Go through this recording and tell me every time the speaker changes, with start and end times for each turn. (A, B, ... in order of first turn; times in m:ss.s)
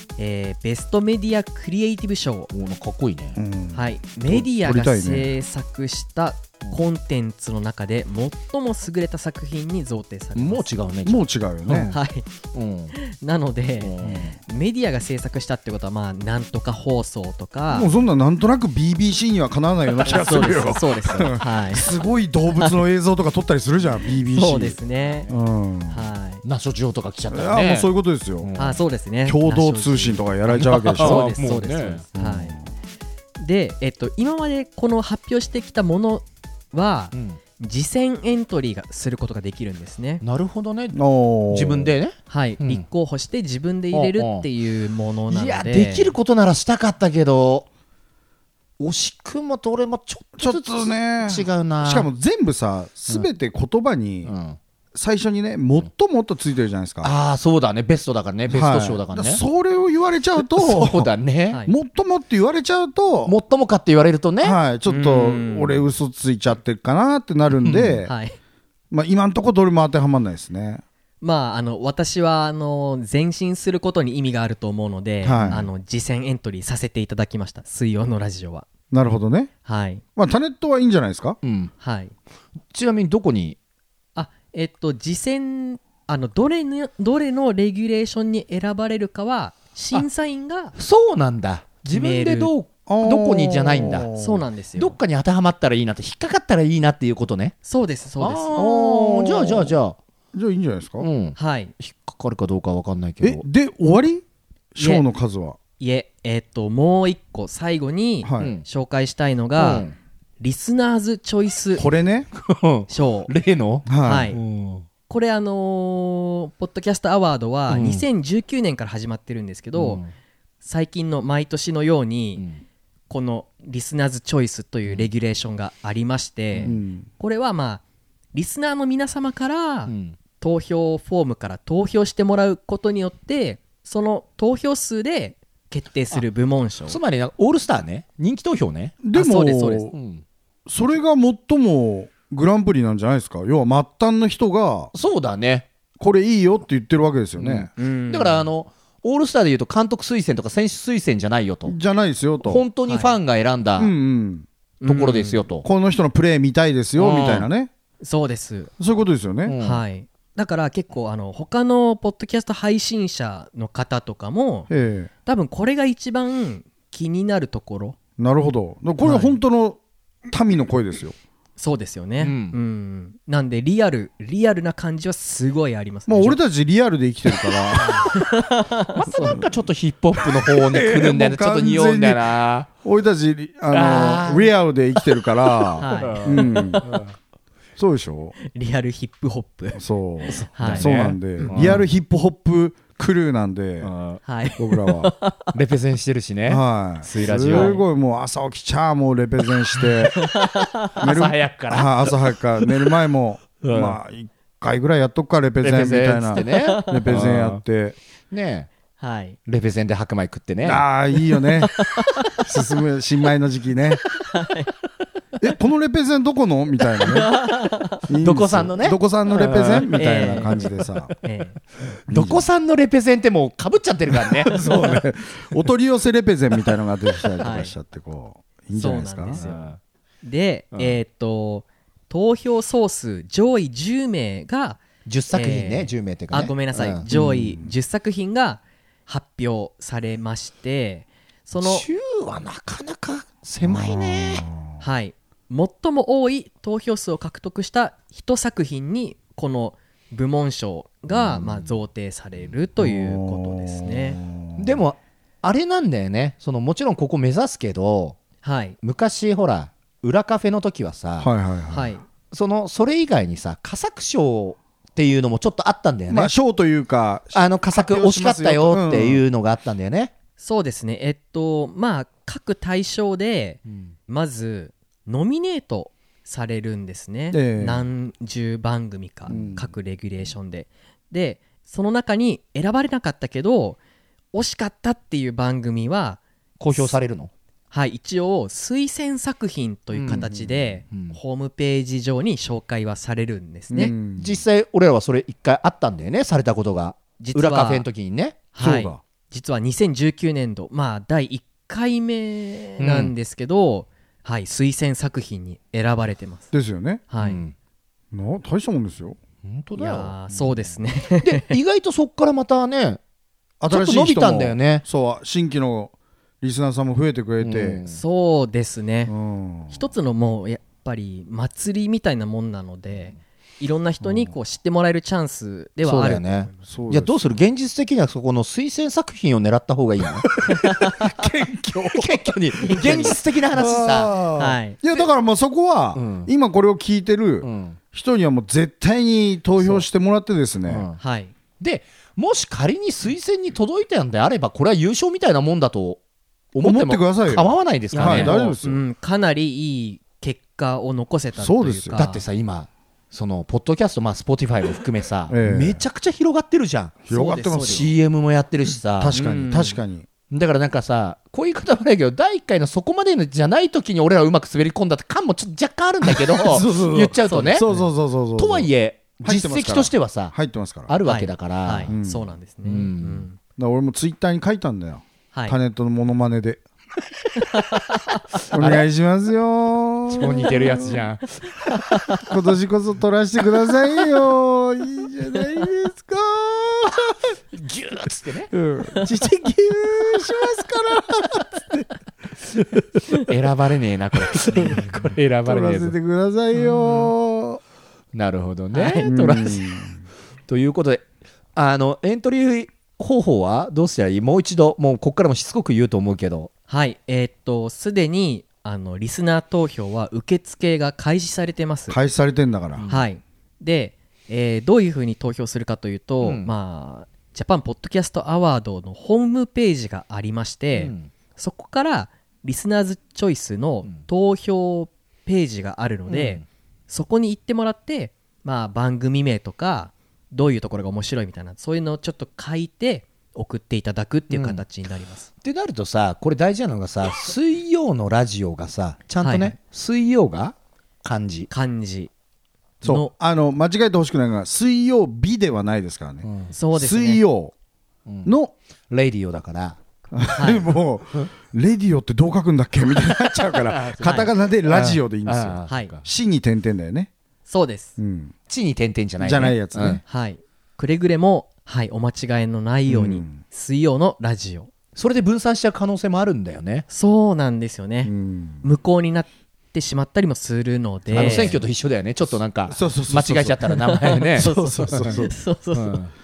0:00.2-0:02.5 A
0:02.5-0:03.4 B
0:03.4-0:05.3 C
0:03.7-0:10.7 A
0:10.4-0:12.0 B
0:11.0-0:11.9 C
0:11.9-0:12.2 A
0:12.5-0:12.9 B
0:12.9-0:17.9 A
0:13.8-0:14.3 B
0:14.0-0:14.3 C
0:17.7-0:26.0 C
0:20.0-0:21.9 A
0:24.3-0:25.3 A
0:25.9-0:26.4 A
0:26.4-0:27.9 B
0:27.3-0:28.5 C
0:28.4-0:28.8 B
0:28.6-0:30.2 A
0:29.2-0:31.3 C
0:30.5-0:32.0 B
0:30.9-0:32.6 A
0:32.1-0:32.6 C
0:33.4-0:40.2 A
0:37.1-0:37.4 B
0:40.2-0:41.0 B
0:40.9-0:41.9 C
0:41.5-0:42.8 B
0:42.3-0:46.1 A
0:43.9-0:44.5 B
0:45.3-0:47.7 B
0:48.8-0:52.1 B
0:50.4-0:54.3 C
0:54.2-0:54.6 B
0:54.9-0:57.1 C
0:57.0-0:59.4 B
0:58.5-1:01.1 C
1:00.4-1:01.6 B
1:01.7-1:03.3 C
1:03.2-1:04.6 B
1:04.4-1:08.1 C
1:04.8-1:05.8 A
1:07.5-1:08.0 B
1:08.0-1:08.4 A
1:08.9-1:10.8 C
1:11.2-1:18.6 A
1:15.2-1:15.6 C
1:15.4-1:15.7 B
1:18.9-1:19.5 C
1:19.6-1:20.0 A
1:20.2-1:21.4 C
1:21.4-1:21.7 B
1:21.8-1:22.1 A
1:22.7-1:23.6 B
1:24.2-1:30.7 A
1:30.8-1:34.1 B
1:31.9-1:32.5 A
1:32.9-1:34.4 C
1:34.2-1:34.9 A
1:34.8-1:37.6 B
1:37.6-1:38.6 A
1:38.2-1:40.0 B
1:38.6-1:39.8 C
1:40.3-1:41.1 C
1:41.0-1:43.4 B
1:41.4-1:41.7 A
1:43.2-1:45.6 C
1:44.8-1:45.0 A
1:45.8-1:49.9 A
1:48.2-1:48.5 C
1:49.6-1:49.9 B
1:50.4-1:51.8 A
1:51.8-1:52.3 C
1:52.3-1:54.8 B
1:52.9-1:53.3 A
1:53.9-1:54.3 C
1:54.0-1:54.4 A
1:55.1-2:00.0 A
1:57.7-1:58.0 B
1:59.7-2:00.1 B
2:00.6-2:02.4 A
2:02.4-2:02.6 B
2:03.1-2:07.8 A
2:06.6-2:07.1 C
2:08.3-2:17.0 A
2:09.9-2:10.2 B
2:16.9-2:19.0 B
2:19.0-2:19.9 C
2:19.1-2:19.9 A
2:19.9-2:20.2 B
2:20.6-2:24.9 C
2:24.9-2:25.7 B
2:26.0-2:27.7 C
2:27.4-2:31.8 B
2:27.8-2:28.5 A
2:31.6-2:32.6 C
2:32.4-2:33.9 B
2:32.8-2:33.2 A
2:33.8-2:34.5 C
2:34.8-2:35.4 A
2:34.8-2:35.7 B
2:35.6-2:37.7 C
2:37.0-2:37.4 B
2:38.0-2:38.7 A
2:38.8-2:39.6 C
2:39.4-2:39.8 B
2:39.6-2:44.7 A
2:44.7-2:45.1 C
2:45.2-2:48.0 A
2:48.2-2:51.2 C
2:49.0-2:49.4 A
2:51.6-2:56.4 A
2:52.2-2:52.6 B
2:56.1-2:58.2 C
2:57.7-2:58.1 B
2:58.1-2:59.4 A
2:59.0-3:02.7 B
2:59.2-2:59.5 C
3:00.4-3:06.8 C
3:03.7-3:04.5 B
3:05.8-3:06.8 A
3:05.8-3:07.1 B
3:07.8-3:08.3 C
3:08.5-3:11.7 A
3:09.7-3:13.9 C
3:10.3-3:11.8 B
3:13.8-3:14.2 B
3:14.2-3:15.5 A
3:14.6-3:15.1 C
3:15.5-3:17.8 B
3:16.5-3:20.2 C
3:17.5-3:17.8 A
3:20.1-3:20.9 A
3:21.0-3:22.9 B
3:21.0-3:28.0 C
3:23.6-3:24.0 B
3:25.6-3:27.6 B
3:26.4-3:27.0 A
3:28.3-3:28.7 B
3:29.0-3:29.4 A
3:29.5-3:30.8 B
3:30.6-3:31.7 C
3:31.6-3:32.4 A
3:32.4-3:34.0 C
3:34.3-3:34.7 A
3:35.4-3:37.3 C
3:37.0-3:38.0 A
3:38.1-3:41.1 C
3:38.2-3:41.2 B
3:39.9-3:40.7 A
3:41.2-3:41.6 A
3:42.1-3:44.6 B
3:42.1-3:42.5 C
3:44.4-3:49.4 C
3:47.4-3:47.7 A
3:48.7-3:49.7 A
3:49.4-3:49.8 B
3:50.2-4:01.8 A
3:55.0-3:57.0 B
3:57.1-3:57.7 C
4:01.6-4:04.5 B
4:03.6-4:04.8 C
4:04.8-4:14.2 A
4:11.1-4:11.7 B
4:12.8-4:14.8 C
4:14.6-4:18.2 B
4:18.4-4:18.8 A
4:18.8-4:21.3 B
4:21.2-4:21.9 C
4:21.7-4:22.0 A
4:22.3-4:26.3 B
4:26.1-4:29.2 C
4:27.3-4:30.1 B
4:30.4-4:43.8 A
4:33.7-4:33.9 B
4:37.3-4:37.8 C
4:39.3-4:39.7 C
4:39.3-4:39.5 B
4:44.3-4:46.2 A
4:46.6-4:47.3 B
4:46.7-4:47.0 A
4:47.7-4:53.9 A
4:49.9-4:50.3 B
4:50.2-4:50.6 C
4:50.9-4:51.2 B
4:53.7-4:54.4 C
4:54.1-4:58.4 B
4:57.2-4:57.8 A
4:58.5-5:06.5 A
4:58.6-4:59.0 C
5:02.8-5:03.1 B
5:06.5-5:07.0 C
5:07.1-5:07.4 A
5:07.2-5:07.5 B
5:08.1-5:09.2 C
5:09.4-5:13.0 B
5:09.8-5:11.6 A
5:13.6-5:17.8 C
5:13.7-5:14.8 B
5:17.4-5:18.0 B
5:17.9-5:19.1 A
5:19.1-5:19.9 C
5:19.7-5:26.6 A
5:24.0-5:24.3 C
5:25.8-5:30.4 B
5:26.6-5:27.1 C
5:30.5-5:31.0 A
5:30.5-5:40.8 C
5:31.9-5:34.1 B
5:32.6-5:33.2 A
5:34.4-5:34.8 A
5:35.9-5:36.3 B
5:37.4-5:37.8 B
5:39.6-5:39.8 B
5:40.7-5:41.0 B
5:41.0-5:41.3 A
5:41.6-5:46.0 B
5:46.5-5:48.4 B
5:46.6-5:48.8 C
5:47.9-5:52.2 A
5:51.4-5:52.0 C
5:51.9-5:57.0 B
5:55.3-5:55.8 C
5:57.0-5:57.9 C
5:57.1-5:57.9 A
5:57.6-5:59.2 B
5:59.0-6:00.1 C
5:59.1-5:59.8 A
6:00.3-6:07.7 B
6:06.0-6:10.9 C
6:07.2-6:07.8 A
6:08.4-6:10.4 B
6:10.9-6:11.9 B
6:11.0-6:13.4 A
6:11.9-6:12.3 C
6:12.6-6:13.2 B
6:13.6-6:16.6 C
6:17.4-6:18.0 A
6:18.5-6:18.8 B
6:18.5-6:21.0 C
6:20.1-6:22.0 B
6:22.3-6:27.1 C
6:27.5-6:28.5 B
6:28.5-6:31.8 C
6:33.1-6:35.9 B
6:34.4-6:37.6 C
6:36.5-6:37.1 B
6:38.1-6:39.8 B
6:38.7-6:39.1 A
6:39.0-6:40.0 C
6:40.5-6:46.5 B
6:46.7-6:52.0 A
6:51.9-6:52.8 C
6:52.8-6:53.1 B
6:52.9-7:15.3 A
6:56.2-6:56.5 B
7:00.8-7:01.1 B
7:06.1-7:06.4 B
7:14.3-7:14.6 B
7:15.4-7:21.5 B
7:19.2-7:19.5 A
7:21.5-7:22.1 A
7:22.8-7:27.5 C
7:22.8-7:23.1 A
7:26.2-7:26.5 B
7:26.5-7:27.2 A
7:28.0-7:28.4 B
7:28.2-7:28.5 C
7:28.9-7:29.8 B
7:30.1-7:37.1 C
7:30.4-7:30.7 A
7:33.6-7:36.0 B
7:34.0-7:34.3 A
7:37.5-7:37.9 A
7:38.0-7:38.3 C
7:38.5-7:40.0 B
7:39.2-7:40.0 C
7:40.0-7:44.7 A
7:42.9-7:43.4 C
7:44.9-7:46.8 B
7:46.9-7:48.1 A
7:48.0-7:48.6 C
7:48.6-7:51.6 A
7:51.1-7:51.6 C
7:51.1-7:55.2 B
7:52.7-7:53.7 C
7:53.9-7:56.0 A
7:54.4-7:55.3 C
7:55.7-7:56.1 B